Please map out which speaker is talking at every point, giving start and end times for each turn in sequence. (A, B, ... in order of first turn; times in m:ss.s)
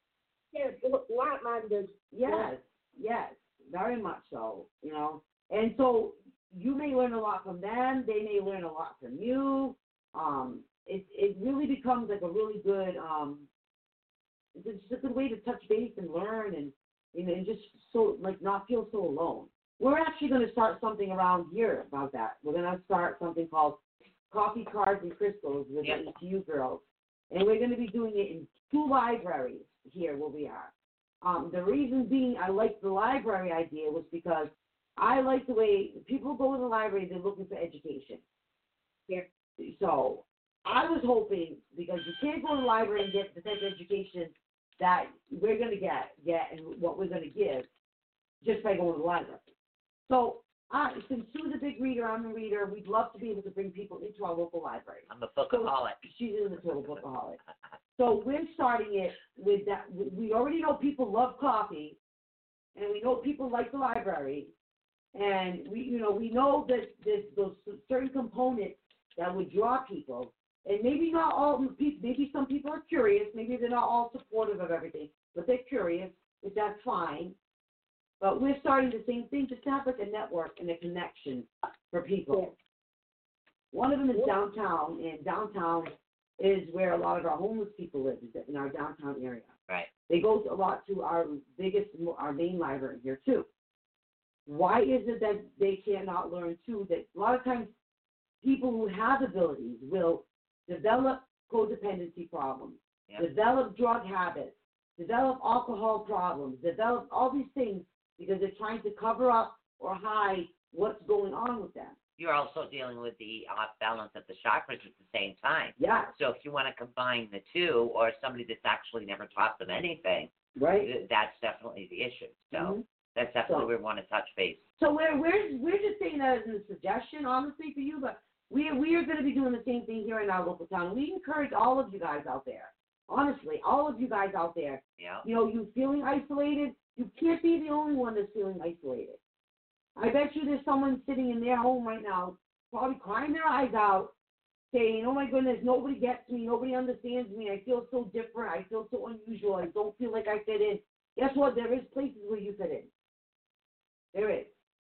0:00.5-0:02.5 A
0:02.1-0:13.5 B
0:14.5-0:38.2 B
0:39.6-0:47.7 B
0:48.4-0:49.4 B
0:50.1-0:57.4 B
0:55.1-0:56.0 C
0:58.0-1:02.0 B
1:02.7-1:04.5 B
1:05.1-1:17.4 B
1:18.2-1:22.5 B
1:23.7-1:29.5 B
1:30.1-1:33.5 B
1:34.4-1:37.7 B
1:38.4-1:52.0 B
1:52.2-2:04.6 C
1:55.8-1:56.1 B
2:00.6-2:00.9 B
2:02.5-2:02.8 B
2:04.8-2:19.2 B
2:15.0-2:15.2 C
2:20.0-2:24.1 B
2:24.7-2:32.9 B
2:34.1-2:34.5 B